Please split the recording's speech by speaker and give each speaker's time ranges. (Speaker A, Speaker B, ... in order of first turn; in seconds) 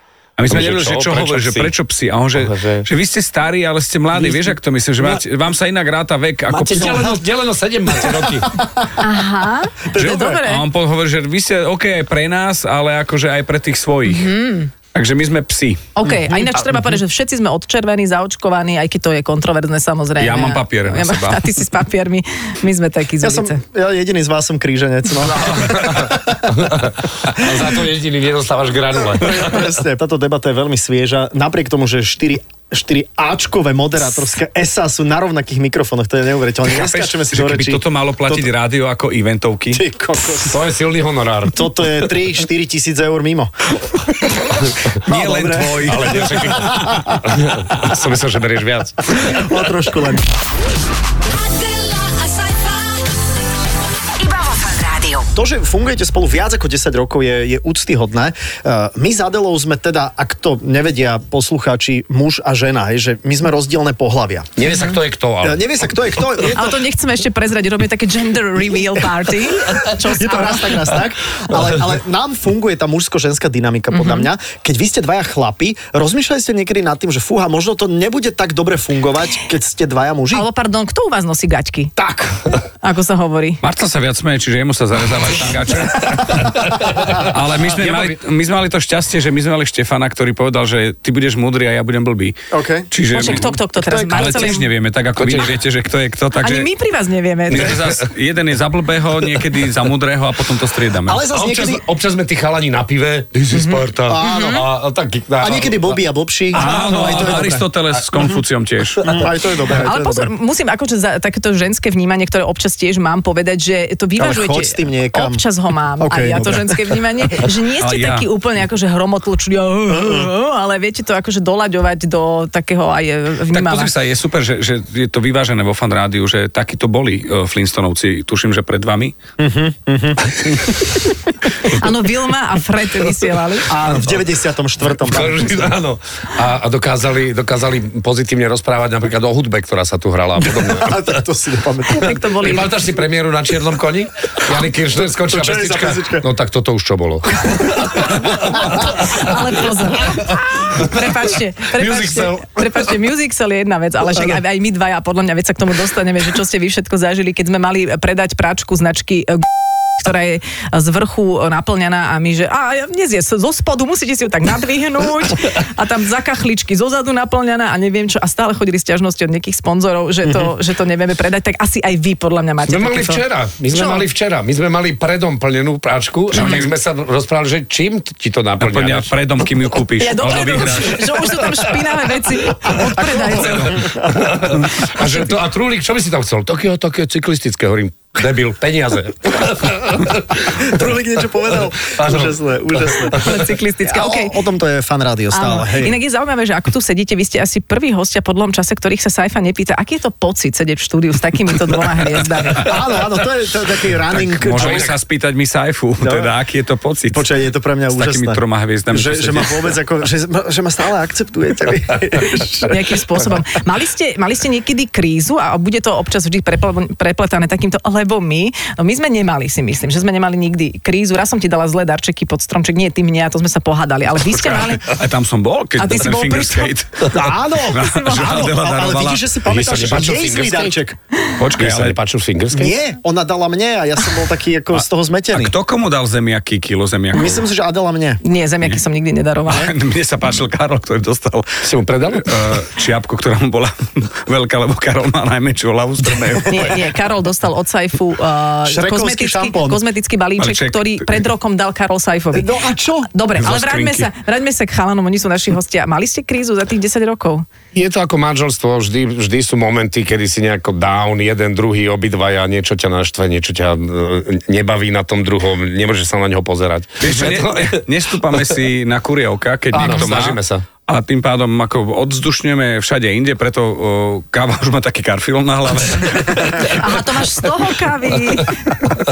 Speaker A: 0.4-7.2, 10.0-14.3, 14.9-15.8, 20.2-21.4, 36.7-39.8, 45.0-46.7, 83.6-92.3, 92.9-93.6, 94.1-96.7, 97.5-101.2, 106.5-109.0, 117.8-118.2, 123.5-129.2, 176.3-176.7, 178.6-181.6, 183.3-183.8, 204.1-207.3, 207.9-209.8, 224.3-229.7, 231.4-232.0, 234.8-237.4, 239.5-246.8, 250.4-251.1, 253.4-254.1, 267.0-276.8
Speaker B: 0.5-1.7, 2.4-2.9, 4.1-5.2, 6.5-8.6, 25.3-29.7, 40.5-41.7, 45.8-49.2, 64.6-65.8, 82.0-82.3, 86.4-88.2, 95.2-95.5, 97.5-98.1, 101.3-106.0, 106.5-108.1, 109.0-109.3, 135.0-141.1, 142.3-149.4, 150.1-150.9, 151.7-152.6, 172.7-179.1, 184.0-190.9, 191.9-192.4, 192.9-193.3, 204.5-204.9, 229.5-230.8, 231.6-232.8, 241.6-242.4, 257.7-267.8, 269.7-270.6
Speaker C: 9.0-10.7, 14.1-14.7, 16.0-23.6, 66.5-70.9, 73.9-74.3, 80.3-81.9, 82.8-83.6, 93.1-94.7, 96.3-97.8, 103.6-104.7, 109.7-123.9, 131.7-133.7, 141.9-142.8, 148.0-159.4, 160.0-174.1, 180.0-183.9, 193.1-194.4, 195.3-202.8, 212.6-224.9, 225.8-226.7, 227.7-228.4, 238.2-239.7, 246.5-252.5, 253.1-257.4, 276.6-278.7
Speaker D: 9.9-10.4, 16.1-16.6, 23.2-26.4, 29.2-38.5, 39.7-40.7, 41.5-43.5, 45.1-47.2, 49.1-50.3, 55.3-64.5, 65.4-66.9, 69.7-80.5, 92.5-94.6, 101.1-101.8, 104.1-104.5, 105.4-107.6, 109.1-110.3, 114.2-115.4, 116.0-117.0, 120.0-120.3, 129.4-131.0, 133.7-135.7, 140.4-142.2, 145.2-146.3, 182.8-184.4, 190.5-196.0, 202.6-204.9, 206.0-206.3, 207.1-213.0, 227.1-231.0, 232.5-235.5, 237.1-238.2, 248.7-249.8, 252.3-253.1
Speaker E: 51.4-53.1, 54.1-55.3